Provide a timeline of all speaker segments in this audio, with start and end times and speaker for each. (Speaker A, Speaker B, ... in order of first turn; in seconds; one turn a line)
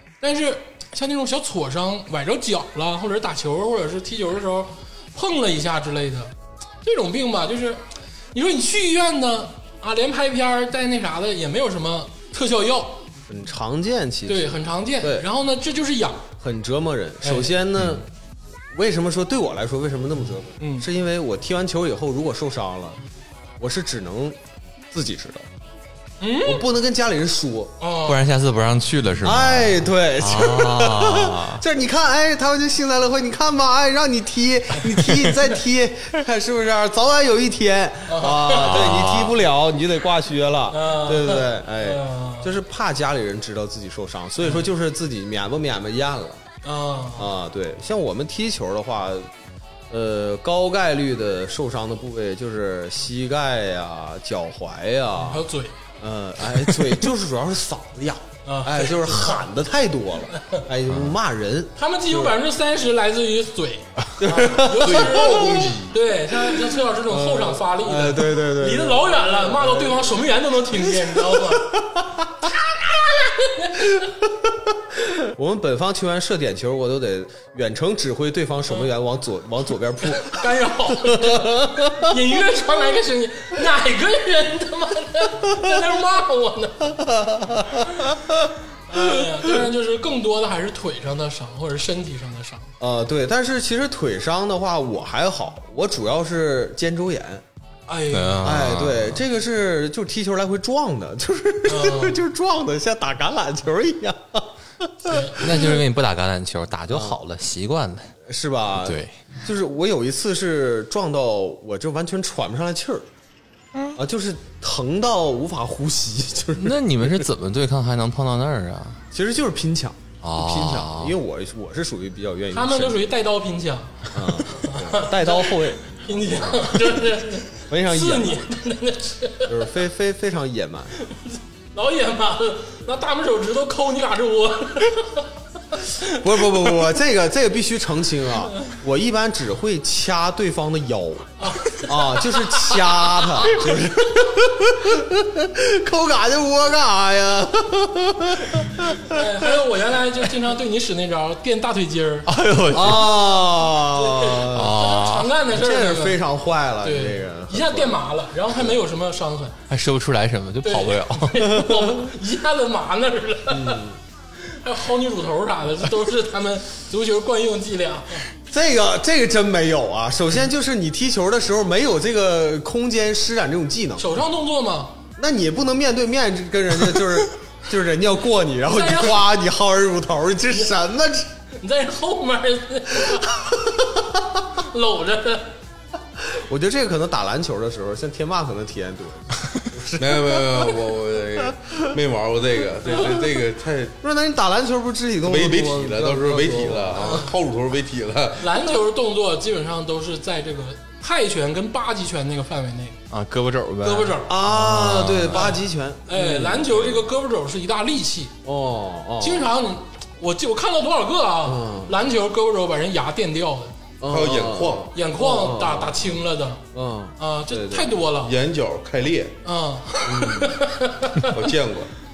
Speaker A: 0.2-7.8
Speaker A: 8.3-13.0
Speaker B: 13.3-15.3
Speaker A: 14.3-16.3
Speaker B: 16.4-18.1
Speaker A: 17.2-17.6
Speaker B: 18.7-23.0
Speaker A: 20.6-20.9
Speaker B: 23.6-24.4
Speaker B: 24.9-25.5
Speaker A: 26.2-26.6
Speaker B: 26.4-27.7
Speaker A: 27.8-28.2
Speaker C: 28.1-31.6
Speaker B: 29.2-46.4
Speaker A: 38.1-38.9
Speaker C: 38.6-39.4
Speaker A: 40.7-42.5
Speaker A: 46.6-47.3
Speaker B: 47.1-49.3
Speaker B: 49.9-55.4
Speaker A: 55.2-55.8
Speaker B: 56.0-62.4
Speaker A: 58.4-59.4
Speaker A: 60.4-60.6
Speaker C: 60.9-61.1
Speaker A: 61.8-71.8
Speaker B: 64.2-65.8
Speaker D: 64.8-66.0
Speaker B: 66.3-70.2
Speaker B: 71.0-72.2
Speaker A: 72.7-74.1
Speaker B: 74.9-82.1
Speaker A: 80.0-87.1
Speaker B: 87.0-88.4
Speaker A: 87.8-88.1
Speaker A: 88.9-92.7
Speaker B: 92.8-97.4
Speaker A: 97.9-98.5
Speaker C: 98.1-99.2
Speaker B: 98.4-105.8
Speaker A: 101.7-102.2
Speaker A: 105.1-105.8
Speaker C: 105.4-108.1
Speaker B: 106.9-107.2
Speaker B: 108.2-113.1
Speaker C: 108.8-109.2
Speaker B: 113.9-117.3
Speaker C: 116.5-119.0
Speaker B: 119.1-123.1
Speaker C: 120.2-121.2
Speaker A: 122.5-129.6
Speaker B: 124.1-127.0
Speaker B: 127.6-128.5
Speaker B: 129.4-130.9
Speaker A: 131.0-136.6
Speaker B: 136.1-149.2
Speaker A: 141.4-143.7
Speaker A: 149.0-152.3
Speaker C: 152.3-153.2
Speaker B: 152.7-154.7
Speaker A: 153.9-156.2
Speaker C: 154.5-155.3
Speaker B: 155.5-158.0
Speaker A: 156.8-159.6
Speaker C: 159.7-161.8
Speaker A: 160.6-163.8
Speaker B: 163.5-164.0
Speaker A: 164.4-168.2
Speaker B: 168.5-174.1
Speaker A: 174.0-175.0
Speaker B: 175.2-181.3
Speaker A: 178.7-179.3
Speaker A: 181.5-183.8
Speaker A: 184.5-185.5
Speaker B: 186.2-190.7
Speaker D: 189.9-194.0
Speaker B: 194.0-197.3
Speaker D: 195.2-198.6
Speaker A: 197.0-197.3
Speaker A: 198.4-203.0
Speaker C: 203.1-205.5
Speaker A: 203.8-204.3
Speaker B: 204.3-207.1
Speaker A: 205.3-208.3
Speaker B: 208.4-209.5
Speaker A: 209.2-213.8
Speaker B: 211.4-212.0
Speaker B: 214.0-216.2
Speaker D: 214.1-214.9
Speaker A: 214.9-216.6
Speaker B: 216.7-217.9
Speaker A: 217.2-218.3
Speaker D: 218.2-219.3
Speaker A: 219.4-221.4
Speaker B: 220.1-220.6
Speaker D: 221.3-221.9